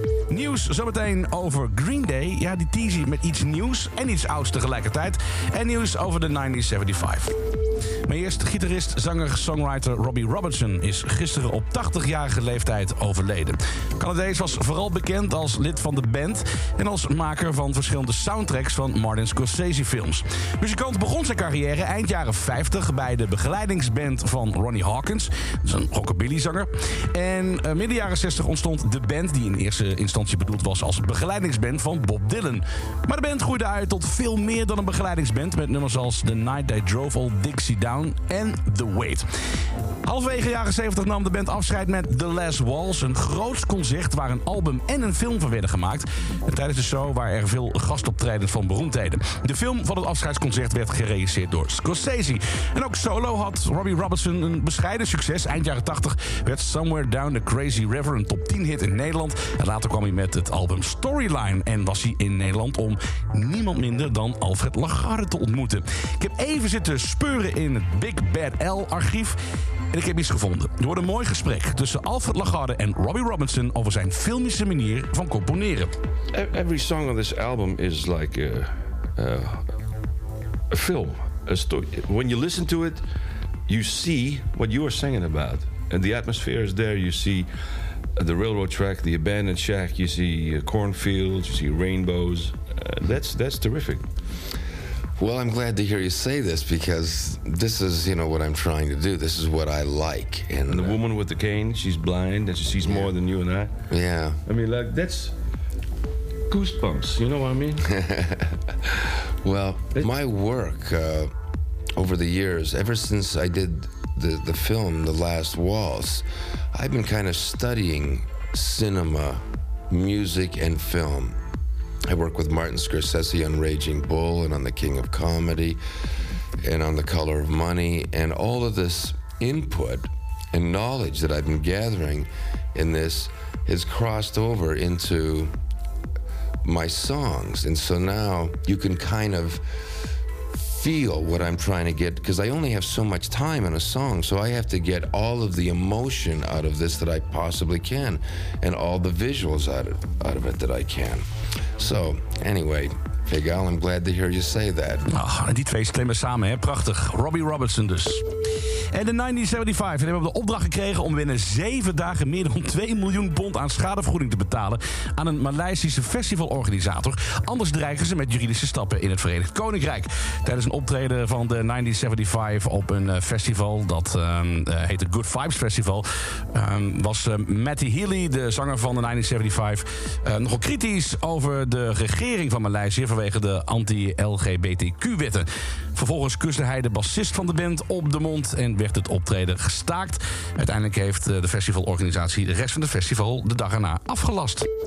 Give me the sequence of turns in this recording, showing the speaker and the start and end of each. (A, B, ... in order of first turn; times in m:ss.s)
0:00.3-0:07.3 A
0:08.0-0:39.2 A
0:40.0-1:09.4 A
1:09.9-1:15.9 A
1:16.3-1:19.6 B
1:20.7-1:23.0 B
1:23.7-1:27.5 B
1:28.2-1:34.0 B
1:35.2-1:41.0 C
1:40.7-1:43.7 B
1:42.8-1:43.1 C
1:43.9-1:44.4 C
1:44.4-1:45.3 B
1:46.5-1:47.9 B
1:47.8-1:51.3 C
1:52.0-2:01.4 C
2:02.0-2:05.8 C
2:06.6-2:15.5 C
2:16.6-2:19.6 C
2:20.6-2:31.2 C
2:31.8-2:35.1 C
2:35.1-2:38.2 A
2:38.9-3:14.6 A